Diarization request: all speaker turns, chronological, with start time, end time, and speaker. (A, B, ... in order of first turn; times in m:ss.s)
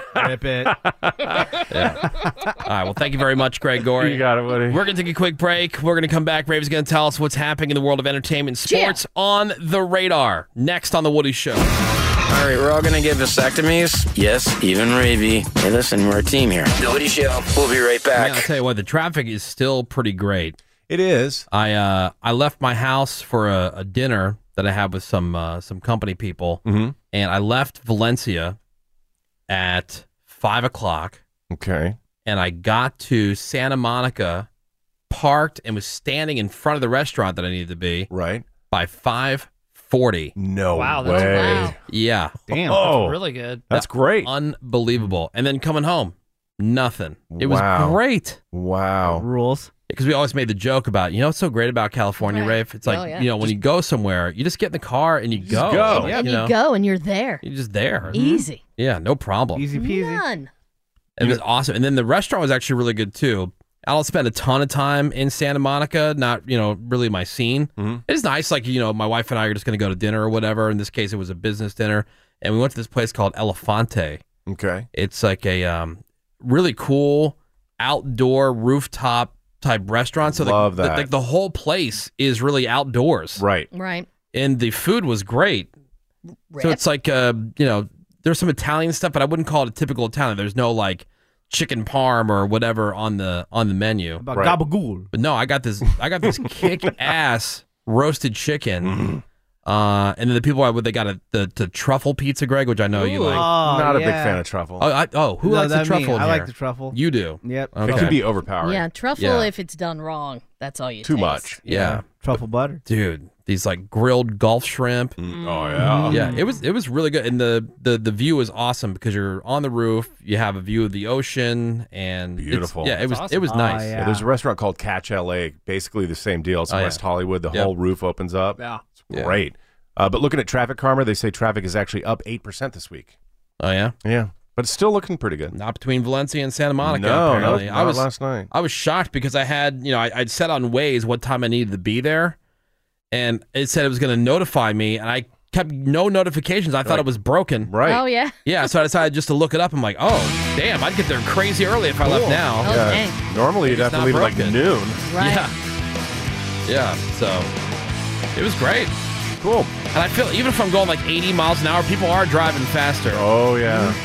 0:00.1-0:00.8 A
0:00.7-0:01.8 B
0:01.7-0:02.0 C
0:02.6-0:11.7 C
0:04.0-0:04.8 B
0:08.7-0:09.0 D
0:12.3-0:18.5 E
0:18.2-0:20.6 C
0:20.9-0:21.5 B
0:21.5-0:28.6 C
0:26.6-0:27.0 B
0:29.5-0:31.2 C
0:31.5-0:32.0 B
0:32.3-0:34.5 C
0:35.1-0:38.1 C
0:38.1-0:38.5 B
0:38.7-0:40.4 C
0:40.4-0:41.8 B
0:40.7-0:41.7 F
0:41.1-0:41.8 D
0:41.9-0:42.3 C
0:42.5-0:43.0 A
0:42.7-0:43.2 B
0:42.8-0:43.6 F
0:43.7-0:44.3 B
0:43.7-0:48.4 C
0:47.3-0:48.0 B
0:48.5-0:49.2 B
0:49.0-0:49.7 A
0:49.9-0:56.5 C
0:52.2-0:53.3 D
0:55.5-0:56.2 B
0:55.5-0:56.2 A
0:56.2-0:57.4 D
0:57.4-0:58.2 C
0:58.1-0:58.6 D
0:58.8-0:59.7 C
0:59.6-1:00.2 A
0:59.7-1:00.5 D
1:01.2-1:14.2 C
1:07.8-1:08.0 B
1:14.5-1:14.9 B
1:14.9-1:23.4 C
1:20.2-1:21.1 B
1:23.4-1:23.7 B
1:23.7-1:24.1 D
1:24.3-1:25.7 C
1:26.5-1:26.8 D
1:26.6-1:34.2 C
1:34.2-1:35.1 A
1:34.3-1:34.6 B
1:35.1-1:39.0 C
1:38.8-1:39.2 B
1:39.7-1:43.5 C
1:42.9-1:43.5 F
1:43.3-1:44.4 A
1:43.5-1:44.9 B
1:44.8-1:48.2 C
1:45.4-1:48.2 A
1:47.9-1:48.8 B
1:48.6-1:51.6 D
1:49.2-1:49.5 C
1:51.0-1:51.6 B
1:51.6-1:52.8 A
1:51.7-1:52.0 C
1:52.9-1:55.2 C
1:55.2-1:56.4 B
1:55.7-1:56.4 A
1:56.0-2:04.0 C
2:02.4-2:03.0 B
2:03.0-2:03.5 F
2:03.5-2:04.3 A
2:04.0-2:13.2 B
2:06.7-2:07.7 C
2:08.6-2:08.8 F
2:09.1-2:09.4 C
2:13.6-2:13.9 C
2:14.0-2:15.6 B
2:15.5-2:22.4 C
2:16.8-2:18.5 B
2:23.1-2:27.7 C
2:27.6-2:28.0 B
2:27.8-2:28.4 D
2:28.4-2:32.9 C
2:32.0-2:35.0 B
2:32.6-2:33.2 D
2:33.6-2:34.6 C
2:35.1-2:35.5 D
2:35.2-2:35.5 C
2:36.7-2:37.5 C
2:38.4-2:38.9 C
2:39.4-2:39.7 B
2:39.9-2:43.3 C
2:43.1-2:44.0 B